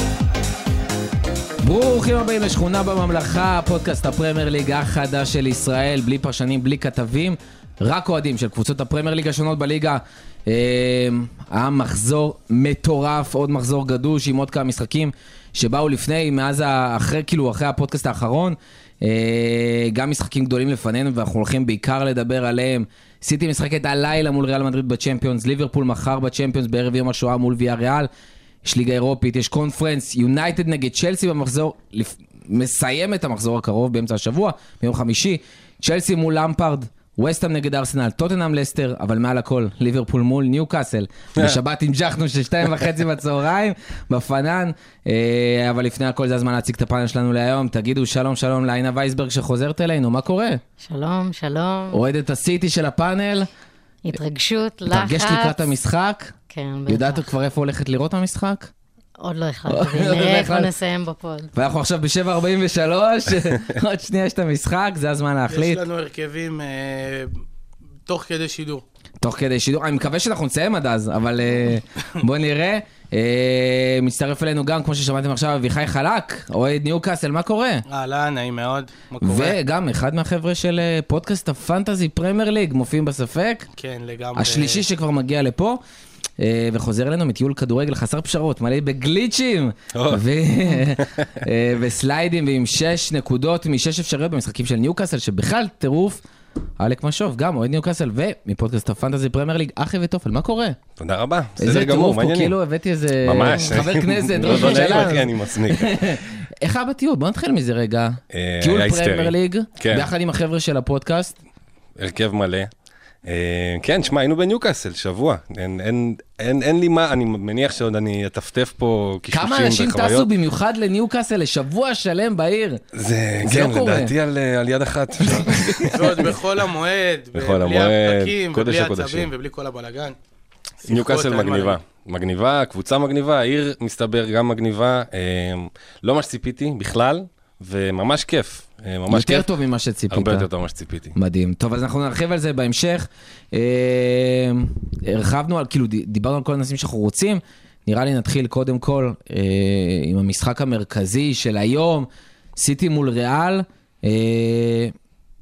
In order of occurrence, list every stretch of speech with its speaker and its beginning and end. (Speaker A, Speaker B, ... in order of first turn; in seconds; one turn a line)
Speaker A: 1.6-28.1
Speaker A: 28.6-50.6
Speaker B: 50.8-52.0
Speaker A: 51.9-53.5
Speaker B: 54.0-55.7
Speaker A: 54.9-56.4
Speaker B: 56.5-57.3
Speaker A: 56.9-58.7
Speaker B: 59.2-61.5
Speaker A: 59.7-60.7
Speaker A: 61.5-65.8
Speaker C: 65.5-67.4
Speaker C: 68.1-68.8
Speaker A: 69.2-77.8
Speaker C: 77.9-79.6
Speaker A: 79.2-83.7
Speaker C: 83.8-84.8
Speaker A: 84.3-85.8
Speaker A: 86.4-96.2
Speaker D: 89.9-90.2
Speaker D: 91.0-91.3
Speaker A: 96.8-100.8
Speaker D: 101.0-102.5
Speaker A: 101.6-111.4
Speaker D: 103.2-106.0
Speaker C: 104.5-105.0
Speaker D: 108.3-110.1
Speaker D: 112.0-112.7
Speaker D: 113.2-120.3
Speaker A: 119.3-122.8
Speaker D: 122.9-126.3
Speaker A: 123.4-124.1
Speaker A: 125.2-126.2
Speaker C: 125.9-130.2
Speaker D: 127.3-129.3
Speaker C: 130.8-131.8
Speaker D: 130.9-139.5
Speaker A: 139.1-140.5
Speaker D: 140.1-141.1
Speaker A: 141.1-154.9